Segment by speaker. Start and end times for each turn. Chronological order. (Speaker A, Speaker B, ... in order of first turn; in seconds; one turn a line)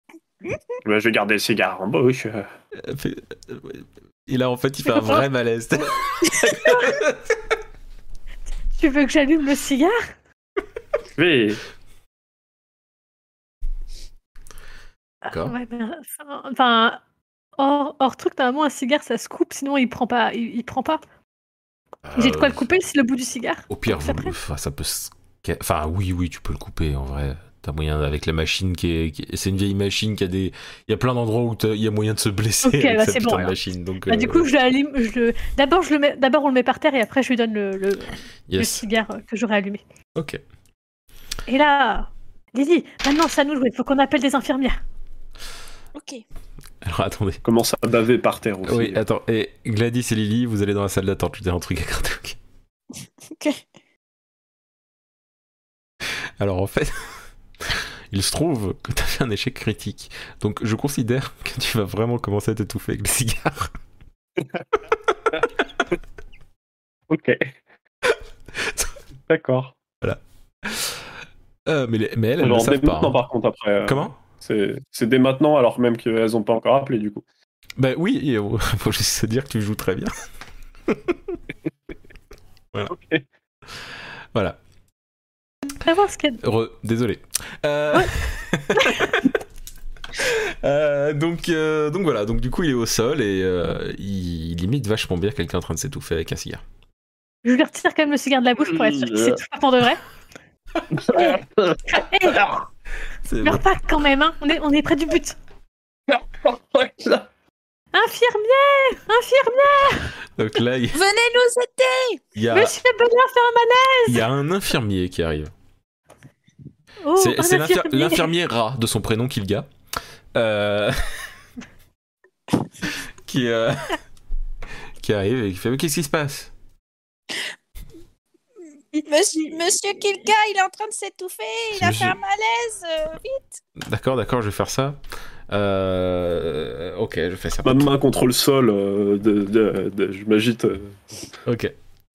Speaker A: 0.8-2.5
Speaker B: 2.8-7.4
Speaker C: 4.9-5.2
Speaker C: 6.6-6.9
Speaker C: 8.7-10.1
Speaker A: 11.1-11.6
Speaker C: 15.3-17.0
Speaker B: 15.3-15.6
Speaker C: 17.6-21.0
Speaker B: 22.0-22.6
Speaker C: 22.1-24.4
Speaker B: 23.7-34.5
Speaker C: 32.6-33.5
Speaker C: 34.1-39.8
Speaker B: 38.5-38.9
Speaker C: 41.5-44.8
Speaker D: 46.0-46.2
Speaker B: 46.8-47.4
Speaker A: 47.4-49.0
Speaker B: 48.6-52.4
Speaker D: 53.3-53.6
Speaker B: 56.4-63.7
Speaker A: 67.1-67.5
Speaker B: 68.6-68.9
Speaker A: 69.3-69.7
Speaker B: 70.0-71.0
Speaker B: 71.7-73.2
Speaker A: 72.4-77.2
Speaker B: 73.8-74.2
Speaker B: 77.8-80.1
Speaker B: 80.9-81.4
Speaker A: 82.9-83.2
Speaker C: 85.8-86.4
Speaker B: 86.4-89.3
Speaker C: 88.8-89.1
Speaker B: 90.2-96.6
Speaker C: 97.4-100.0
Speaker A: 98.6-99.4
Speaker A: 100.9-102.6
Speaker C: 101.1-102.5
Speaker B: 103.3-103.6
Speaker C: 103.4-105.4
Speaker A: 106.1-107.3
Speaker C: 107.9-110.1
Speaker B: 110.3-111.0
Speaker D: 110.9-112.2
Speaker B: 112.3-112.7
Speaker C: 112.5-114.2
Speaker B: 114.0-115.5
Speaker C: 117.0-118.3
Speaker B: 117.2-119.7
Speaker B: 120.3-121.2
Speaker B: 123.2-124.0
Speaker B: 125.0-126.5
Speaker D: 128.9-133.5
Speaker B: 131.7-132.2
Speaker B: 133.8-135.0
Speaker B: 135.5-137.9
Speaker A: 137.6-141.2
Speaker B: 141.4-141.7